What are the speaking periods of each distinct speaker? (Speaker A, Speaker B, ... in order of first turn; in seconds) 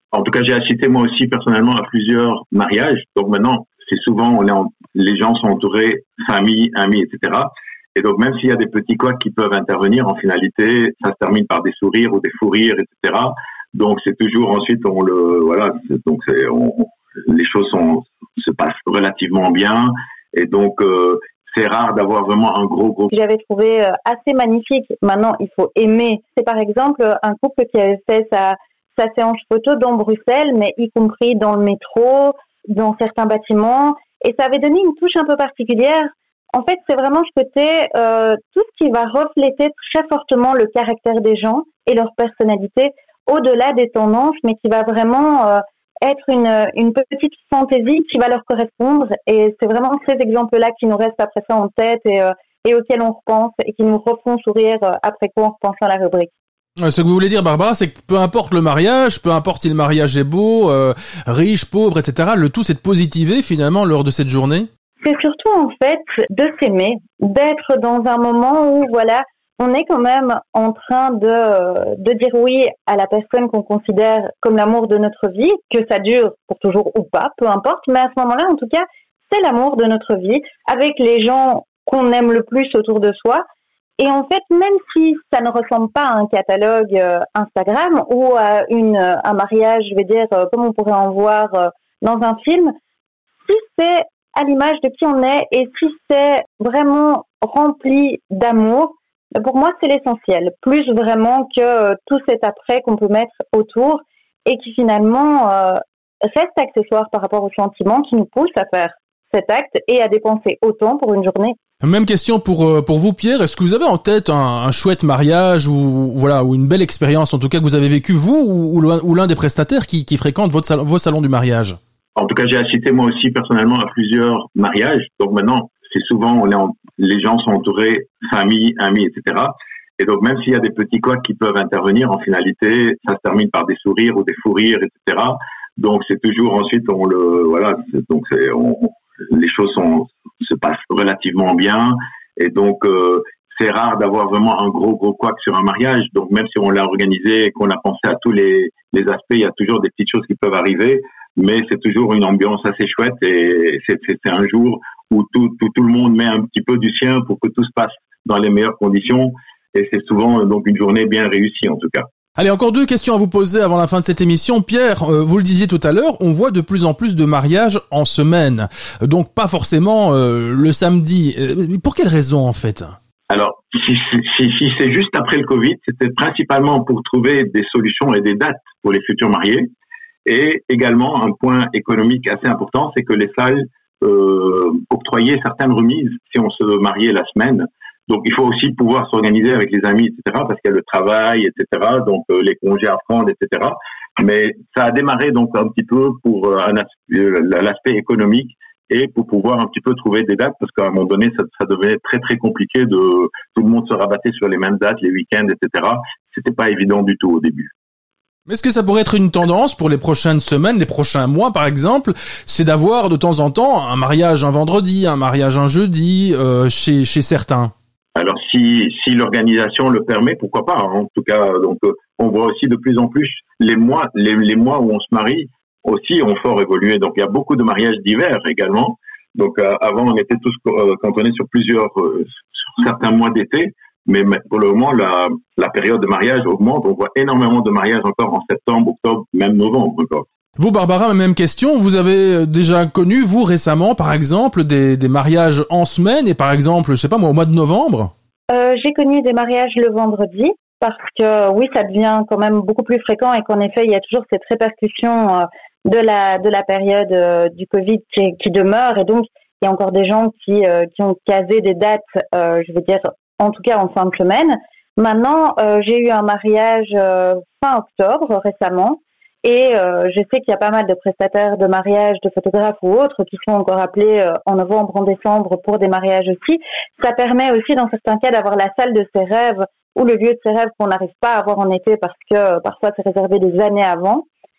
Speaker A: 0.1-23.1, 122.2-162.1, 173.3-179.7, 180.2-207.7, 218.1-240.2
Speaker B: 23.1-56.3, 65.0-83.4, 84.0-92.7, 93.5-111.5, 248.5-284.2
Speaker C: 56.8-64.7, 111.8-121.8, 162.4-173.0, 208.5-217.7, 240.6-248.1